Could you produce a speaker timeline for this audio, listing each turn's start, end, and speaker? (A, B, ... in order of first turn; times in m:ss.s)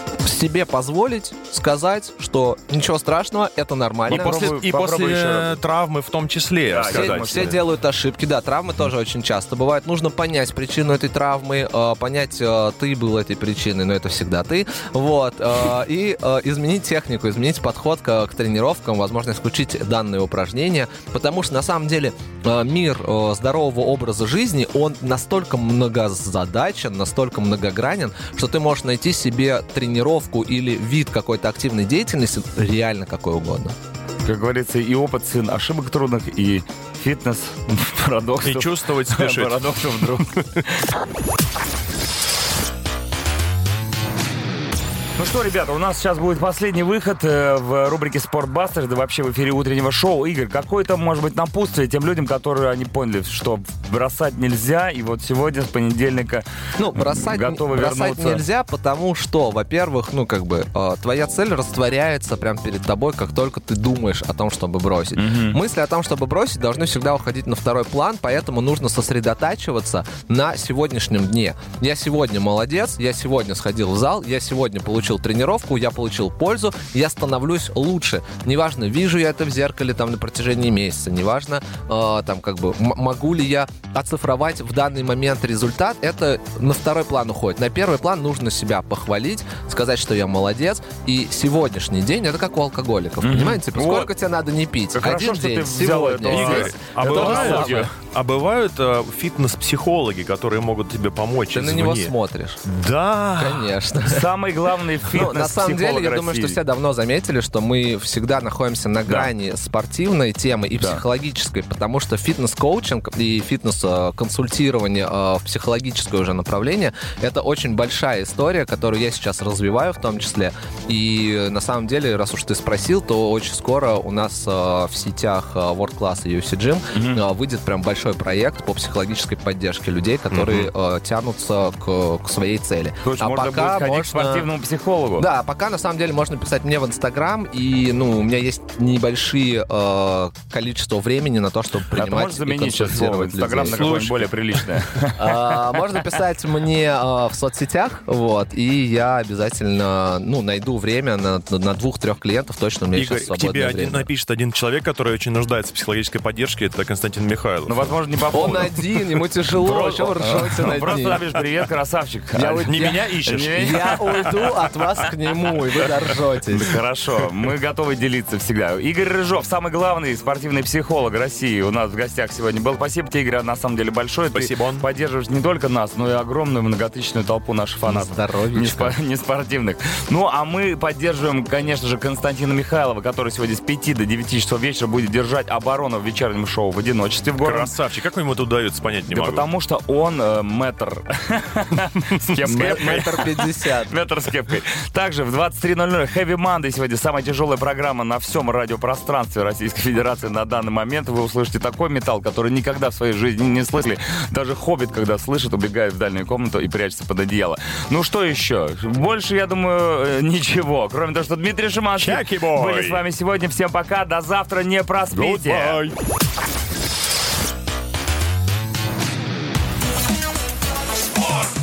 0:00.2-0:04.5 A
0:04.1-0:07.6 B
0:04.1-0:05.6 C
0:06.7-0:07.6 C
0:06.9-0:33.8 A
0:34.2-0:40.5 C
0:38.4-0:40.4 B
0:45.2-0:58.4 C
0:56.8-1:37.9 A
1:05.2-1:05.6 C
1:33.2-1:34.1 C
1:34.9-1:37.9 C
1:36.3-1:42.1 B
1:41.5-1:42.6 A
1:42.7-1:43.7 B
1:43.4-1:44.3 A
1:44.0-1:46.6 C
1:45.1-2:14.5 A
1:49.1-1:49.3 B
1:50.8-1:51.0 C
2:06.9-2:07.2 C
2:10.3-2:10.7 B
2:13.0-2:15.3 C
2:15.2-2:24.0 A
2:21.9-2:25.7 C
2:23.7-2:24.3 B
2:25.2-2:34.1 A
2:32.9-2:37.9 B
2:37.7-2:38.8 C
2:38.3-2:41.2 A
2:39.5-2:44.4 C
2:40.7-2:41.0 B
2:42.4-2:46.8 A
2:42.6-2:44.4 B
2:46.5-3:07.7 C
2:54.3-2:54.8 B
2:57.9-2:59.0 A
3:07.4-3:09.5 B
3:09.1-3:35.8 C
3:12.4-3:13.9 A
3:12.5-3:13.3 B
3:32.0-3:33.0 B
3:35.1-3:36.0 B